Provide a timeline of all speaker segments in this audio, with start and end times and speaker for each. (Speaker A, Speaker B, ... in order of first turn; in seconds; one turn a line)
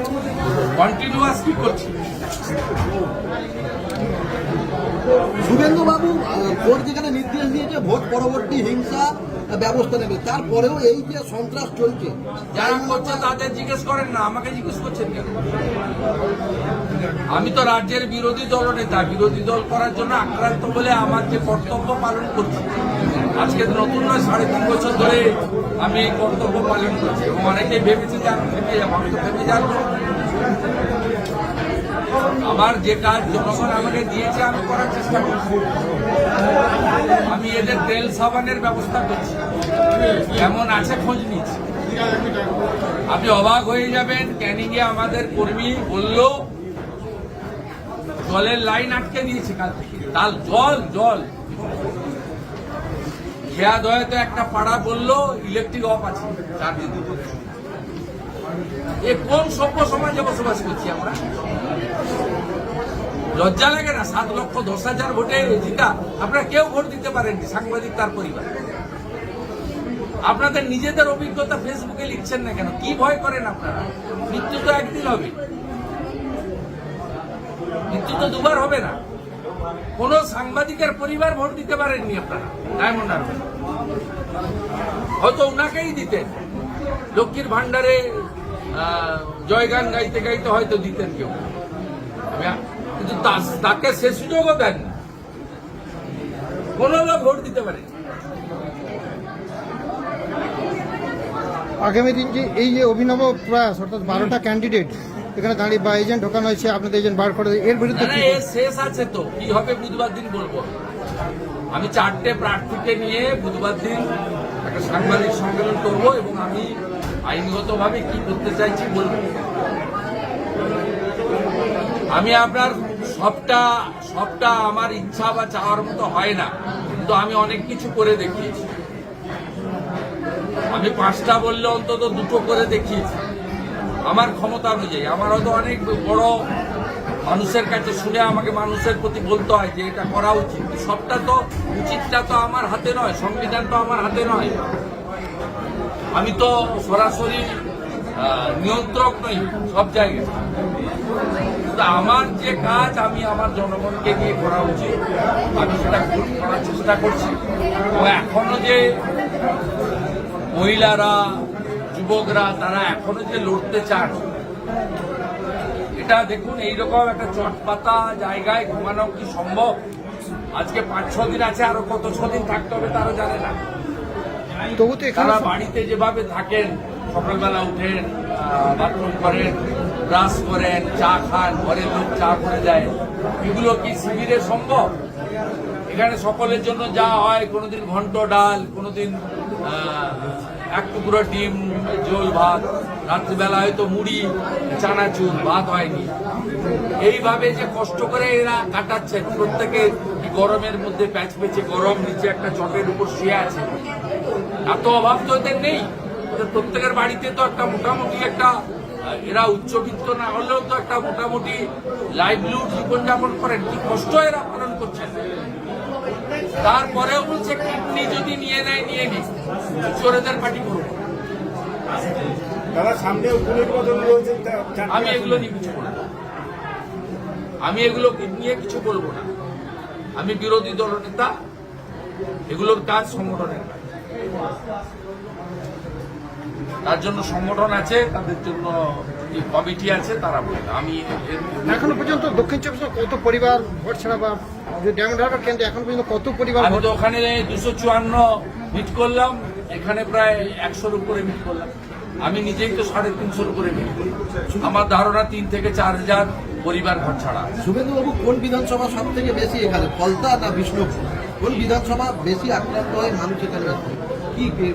Speaker A: 0.7-1.9
Speaker B: 5.4-12.2
Speaker A: 12.5-15.3
Speaker A: 17.3-22.7
Speaker A: 23.3-25.2
Speaker A: 25.8-29.8
Speaker A: 32.4-35.6
Speaker A: 37.3-39.4
Speaker A: 40.3-41.6
Speaker A: 43.1-46.3
Speaker A: 48.2-51.3
Speaker A: 53.5-57.5
Speaker A: 59.0-61.2
Speaker A: 63.4-68.5
Speaker A: 70.2-75.3
Speaker A: 77.9-79.0
Speaker A: 80.0-83.4
Speaker A: 85.2-86.3
Speaker A: 87.1-91.5
Speaker A: 92.3-95.0
Speaker A: 96.8-97.9
Speaker C: 101.8-108.4
Speaker A: 107.9-110.7
Speaker A: 111.7-114.1
Speaker A: 114.6-116.7
Speaker A: 117.2-119.4
Speaker A: 122.1-128.7
Speaker A: 130.7-133.2
Speaker A: 134.1-136.3
Speaker A: 137.2-144.6
Speaker A: 146.1-147.5
Speaker A: 148.2-150.3
Speaker A: 151.6-155.0
Speaker A: 155.6-157.4
Speaker A: 157.9-158.8
Speaker A: 160.5-161.4
Speaker A: 161.9-164.2
Speaker A: 166.0-169.7
Speaker A: 170.5-173.6
Speaker C: 174.8-175.5
Speaker A: 175.1-184.9
Speaker A: 185.9-196.1
Speaker A: 197.0-203.7
Speaker A: 204.7-208.5
Speaker A: 209.0-211.6
Speaker A: 212.2-215.3
Speaker A: 216.6-219.3
Speaker A: 219.8-221.0
Speaker B: 222.7-225.5
Speaker A: 224.9-226.0
Speaker A: 227.6-229.3
Speaker A: 230.2-231.3
Speaker A: 232.5-233.8
Speaker A: 236.8-242.2
Speaker C: 241.7-246.9
Speaker A: 246.6-251.7
Speaker A: 252.2-254.1
Speaker A: 254.6-257.5
Speaker B: 261.0-261.3